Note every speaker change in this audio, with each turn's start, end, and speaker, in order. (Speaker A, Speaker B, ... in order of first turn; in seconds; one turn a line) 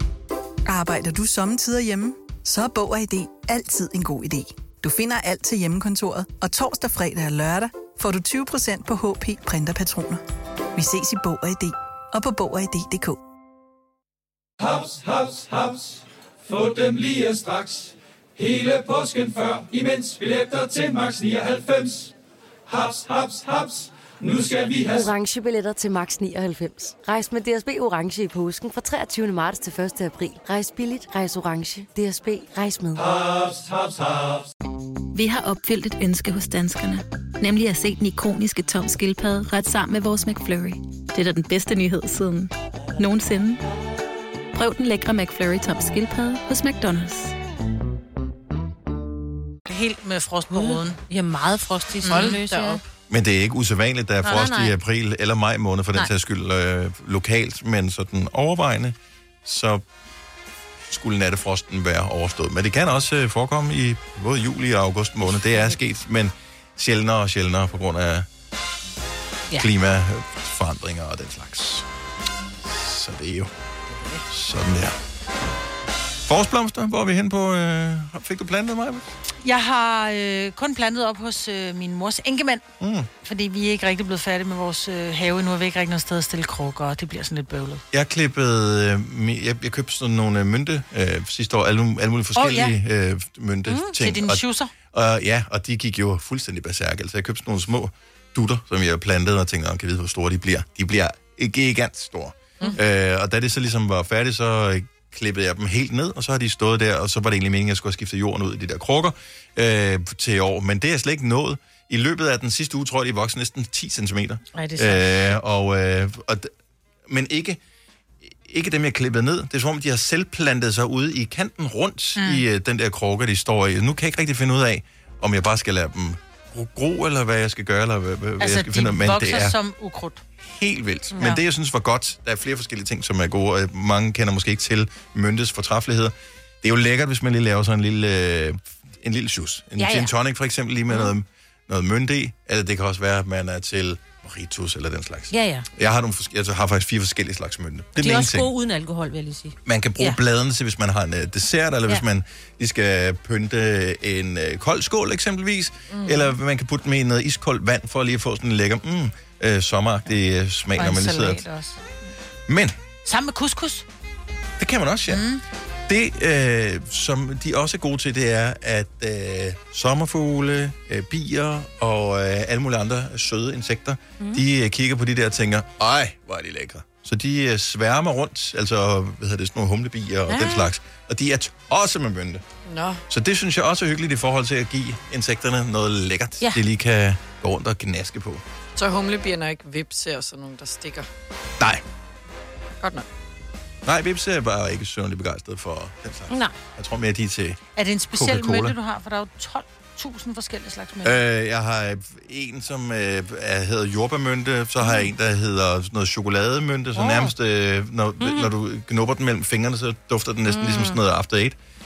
Speaker A: 0.7-10.2
Speaker A: 10.8-13.2
Speaker B: 14.6-22.1
Speaker B: 22.7-25.1
Speaker C: 24.9-33.0
Speaker B: 33.0-34.5
Speaker D: 35.1-43.6
Speaker D: 44.5-47.3
Speaker E: 49.7-51.0
Speaker F: 50.5-52.8
Speaker E: 52.0-52.4
Speaker G: 52.1-52.8
Speaker H: 53.1-59.8
Speaker F: 54.2-54.7
Speaker H: 60.9-68.3
Speaker H: 69.6-71.9
Speaker H: 72.6-73.5
Speaker H: 74.3-75.0
Speaker H: 76.3-79.1
Speaker E: 79.4-82.6
Speaker H: 82.8-83.1
Speaker E: 83.2-87.8
Speaker H: 87.9-116.5
Speaker E: 92.4-92.8
Speaker E: 93.9-94.7
Speaker E: 114.5-115.0
Speaker H: 117.1-117.6
Speaker H: 118.3-129.6
Speaker E: 122.2-122.4
Speaker E: 128.4-130.2
Speaker H: 130.4-148.5
Speaker E: 139.8-140.1
Speaker F: 145.3-145.7
Speaker F: 148.0-150.2
Speaker H: 149.7-161.4
Speaker G: 155.9-156.3
Speaker E: 160.8-161.9
Speaker H: 162.5-162.7
Speaker E: 163.1-163.9
Speaker H: 164.6-165.3
Speaker E: 165.1-165.4
Speaker H: 165.9-182.4
Speaker F: 180.3-180.7
Speaker G: 182.7-183.0
Speaker H: 183.1-188.4
Speaker G: 188.8-191.1
Speaker G: 192.8-193.1
Speaker H: 193.8-197.6
Speaker E: 197.8-201.2
Speaker H: 198.1-198.8
Speaker H: 201.0-211.6
Speaker F: 207.0-207.3
Speaker F: 208.2-208.5
Speaker F: 210.5-211.0